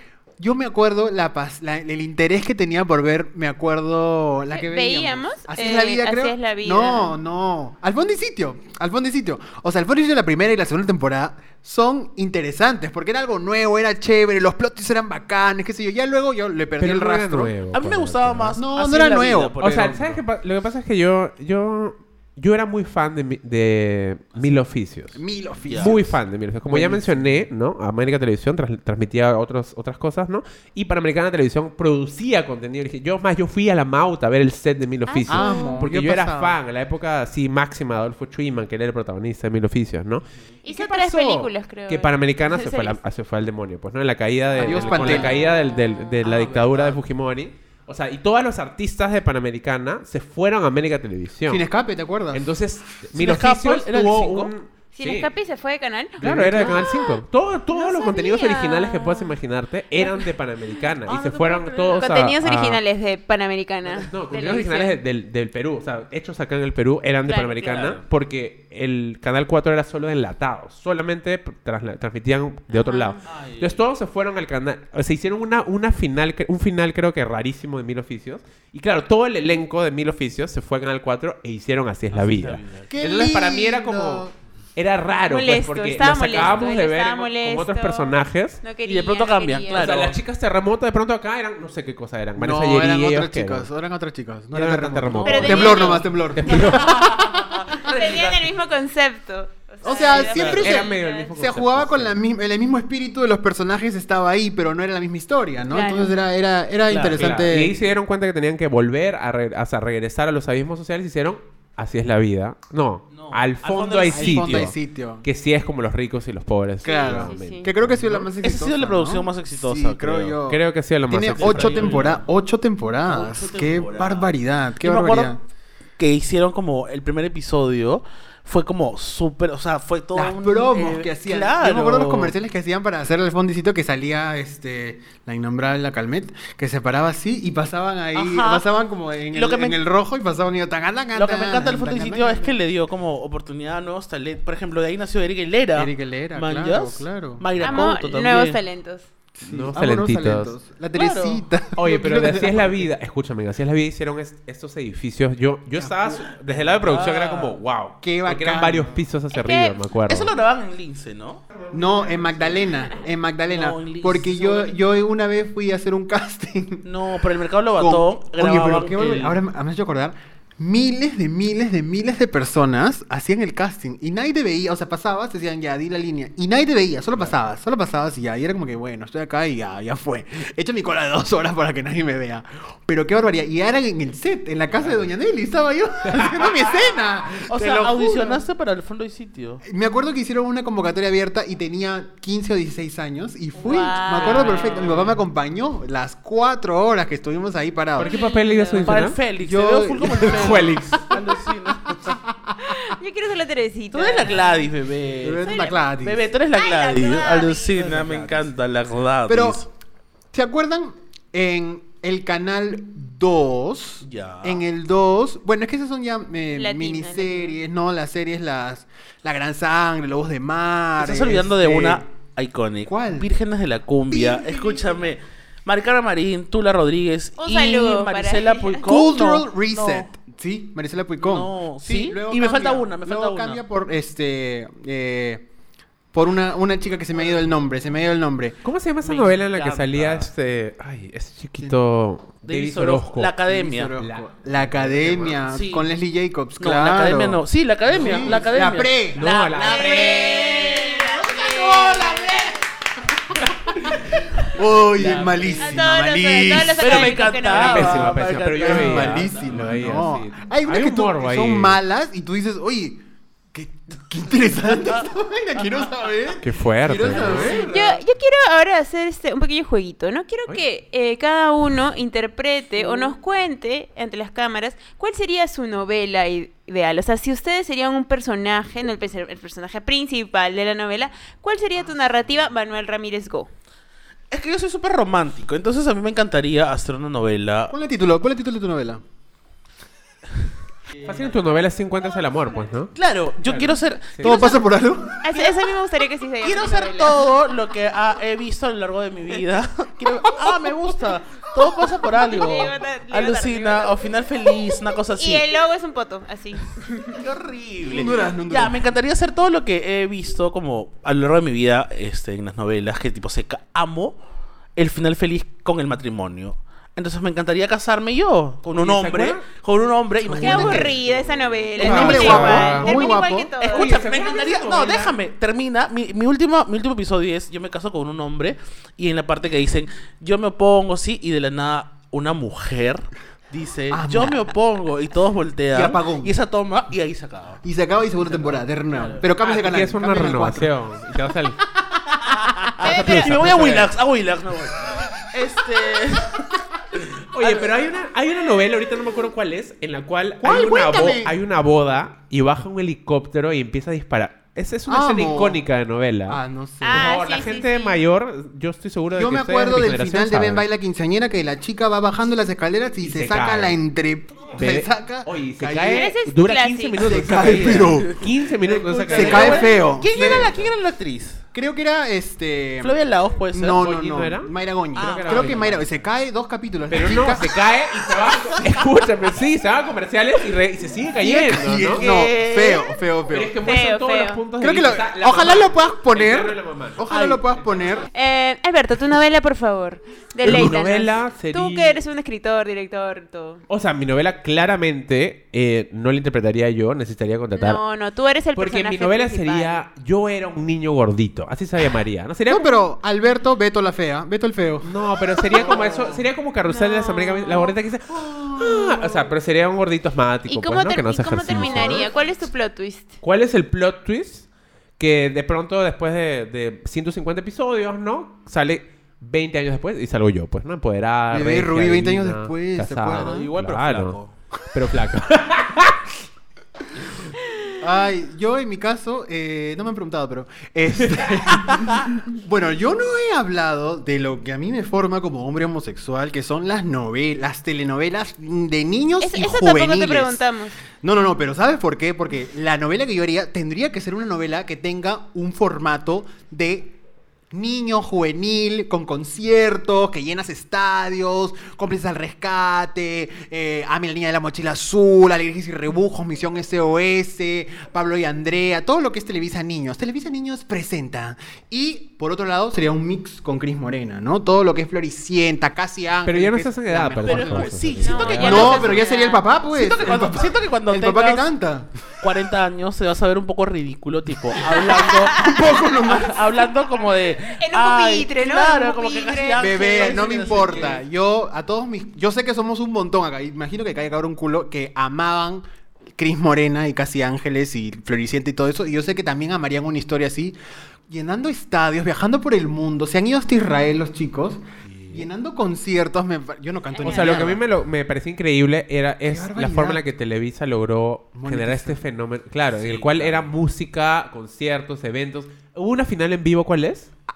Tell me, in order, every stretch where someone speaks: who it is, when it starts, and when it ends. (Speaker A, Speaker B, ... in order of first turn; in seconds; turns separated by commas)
Speaker A: 0.4-17.5, Speaker B: 4.5-7.1, Speaker C: 16.8-18.6, Speaker D: 17.7-20.2, Speaker A: 18.6-20.0, Speaker C: 19.6-25.2, Speaker A: 25.1-26.2, Speaker D: 25.7-26.0, Speaker C: 25.8-51.6, Speaker A: 26.7-27.4, Speaker B: 35.1-35.8, Speaker A: 35.3-36.6, Speaker B: 40.6-43.0, Speaker A: 44.5-45.3, Speaker D: 44.6-45.3, Speaker B: 45.1-45.8, Speaker D: 46.2-47.0, Speaker A: 51.5-52.5, Speaker C: 52.3-55.3, Speaker D: 53.1-54.5, Speaker B: 54.9-59.4, Speaker C: 56.2-62.8, Speaker D: 56.2-56.8, Speaker D: 61.0-62.1, Speaker B: 62.0-65.0, Speaker C: 64.1-88.6, Speaker B: 67.3-68.0, Speaker D: 67.7-68.0, Speaker B: 72.7-73.2, Speaker D: 73.2-73.8, Speaker D: 82.1-82.9, Speaker A: 82.9-84.3, Speaker B: 85.3-90.1, Speaker D: 88.8-90.2, Speaker C: 89.7-93.7, Speaker A: 92.3-97.7, Speaker C: 94.5-97.1, Speaker D: 95.1-96.0, Speaker B: 95.2-96.6, Speaker D: 96.5-98.5, Speaker B: 97.8-101.3, Speaker A: 99.8-107.7, Speaker C: 100.1-102.2, Speaker D: 100.3-100.6, Speaker B: 105.7-106.1, Speaker C: 106.9-118.3, Speaker D: 113.1-114.7, Speaker A: 114.1-115.2, Speaker A: 116.8-125.4, Speaker B: 116.8-117.7, Speaker D: 118.4-120.4, Speaker C: 120.5-122.1, Speaker D: 121.3-122.2, Speaker D: 123.0-125.3, Speaker D: 126.0-132.3, Speaker A: 130.1-142.6, Speaker D: 138.1-138.7, Speaker D: 139.3-139.8, Speaker D: 141.1-148.6, Speaker A: 145.7-147.4, Speaker B: 147.6-149.1, Speaker A: 149.3-152.9, Speaker C: 149.4-150.5, Speaker D: 150.9-151.4, Speaker C: 151.8-160.3, Speaker A: 155.8-156.3, Speaker D: 156.5-157.6, Speaker A: 158.0-159.0, Speaker B: 159.3-159.8, Speaker D: 160.1-161.4, Speaker A: 161.7-166.9, Speaker D: 163.4-164.7, Speaker D: 166.8-169.4, Speaker A: 167.8-188.4, Speaker C: 186.1-186.5, Speaker D: 187.4-189.6, Speaker A: 189.6-198.1, Speaker B: 193.6-194.9, Speaker D: 194.1-195.2, Speaker C: 197.9-199.2, Speaker B: 198.0-199.1, Speaker D: 198.8-202.2, Speaker A: 199.4-202.9, Speaker C: 200.2-201.1, Speaker B: 202.6-204.7, Speaker D: 203.9-209.7, Speaker A: 205.2-206.3, Speaker B: 205.4-205.8, Speaker B: 206.5-207.8, Speaker A: 207.8-208.4, Speaker A: 209.3-209.6, Speaker A: 210.3-222.0, Speaker D: 214.0-214.6, Speaker B: 216.5-217.6, Speaker D: 221.0-230.1, Speaker A: 222.9-223.3, Speaker A: 224.1-225.1, Speaker B: 227.4-228.8, Speaker A: 228.8-235.4, Speaker D: 231.2-233.6, Speaker A: 236.1-238.6, Speaker C: 238.6-243.4, Speaker D: 239.0-240.3, Speaker D: 242.4-244.0, Speaker A: 243.4-249.2, Speaker C: 243.9-245.4, Speaker D: 245.5-245.9, Speaker D: 246.6-252.6, Speaker C: 247.9-248.3, Speaker C: 249.1-250.5, Speaker B: 249.2-252.6, Speaker A: 253.3-257.2, Speaker C: 253.5-254.1, Speaker D: 254.8-255.8, Speaker B: 255.6-258.1, Speaker D: 256.8-259.8, Speaker C: 257.4-261.8, Speaker A: 257.8-263.0, Speaker A: 263.5-268.0, Speaker C: 266.4-267.6, Speaker D: 267.0-267.7, Speaker B: 267.6-283.5, Speaker D: 284.3-287.7, Speaker A: 287.7-289.0, Speaker C: 291.0-292.9, Speaker D: 292.9-294.5, Speaker C: 293.4-294.5, Speaker A: 294.2-295.2, Speaker B: 295.2-297.2, Speaker D: 295.3-295.6, Speaker D: 296.4-305.5, Speaker B: 302.1-304.1, Speaker B: 305.1-307.2, Speaker D: 307.1-314.2, Speaker A: 307.9-308.8, Speaker D: 314.8-321.0, Speaker C: 318.7-319.4, Speaker C: 320.3-321.0, Speaker B: 320.4-325.0, Speaker A: 320.6-320.9, Speaker D: 321.7-337.6, Speaker C: 321.8-323.0, Speaker A: 321.8-323.6, Speaker C: 323.7-325.0, Speaker A: 333.9-334.4, Speaker A: 335.7-336.3, Speaker A: 337.6-340.7, Speaker D: 338.2-339.3, Speaker C: 339.4-341.6, Speaker A: 342.0-342.3, Speaker D: 342.2-347.6, Speaker C: 342.8-343.9, Speaker B: 342.8-343.3, Speaker C: 347.3-360.6, Speaker A: 350.4-351.3, Speaker A: 354.9-355.6, Speaker A: 356.3-357.2, Speaker B: 356.8-358.0, Speaker A: 359.1-366.1, Speaker C: 363.0-363.7, Speaker C: 364.6-370.7, Speaker B: 365.9-367.1, Speaker A: 367.0-368.2, Speaker D: 367.3-371.4, Speaker A: 369.1-370.6, Speaker A: 371.5-372.9, Speaker D: 372.8-373.8, Speaker A: 373.5-377.5, Speaker C: 373.7-375.9, Speaker D: 374.9-375.8, Speaker C: 376.9-382.0, Speaker D: 378.2-378.6, Speaker A: 381.2-383.5, Speaker D: 381.9-382.9, Speaker C: 383.3-387.1, Speaker B: 383.6-384.4, Speaker A: 384.6-388.1, Speaker D: 387.1-387.4, Speaker B: 388.1-393.6, Speaker C: 390.4-392.0, Speaker C: 393.7-397.8, Speaker B: 397.5-399.8, Speaker C: 398.6-402.7, Speaker A: 402.5-406.2, Speaker C: 404.8-412.1, Speaker B: 406.7-407.7, Speaker A: 408.1-409.2, Speaker B: 410.5-413.2, Speaker A: 411.5-412.1, Speaker C: 413.2-414.5, Speaker C: 415.0-424.2, Speaker A: 421.3-423.5, Speaker D: 423.1-424.3, Speaker C: 424.7-426.1, Speaker A: 427.8-440.4, Speaker B: 439.2-440.8, Speaker A: 441.0-446.9, Speaker A: 447.5-471.9, Speaker C: 466.2-468.9, Speaker D: 467.2-469.0, Speaker B: 468.0-469.4, Speaker D: 469.7-471.5, Speaker D: 472.2-481.0, Speaker B: 475.0-475.7, Speaker A: 475.3-476.5, Speaker B: 477.4-479.9, Speaker A: 479.6-490.6, Speaker A: 491.1-497.6, Speaker D: 494.9-495.2, Speaker B: 496.9-497.5, Speaker C: 497.0-507.1, Speaker A: 499.2-500.0, Speaker A: 501.3-502.1, Speaker D: 502.7-503.5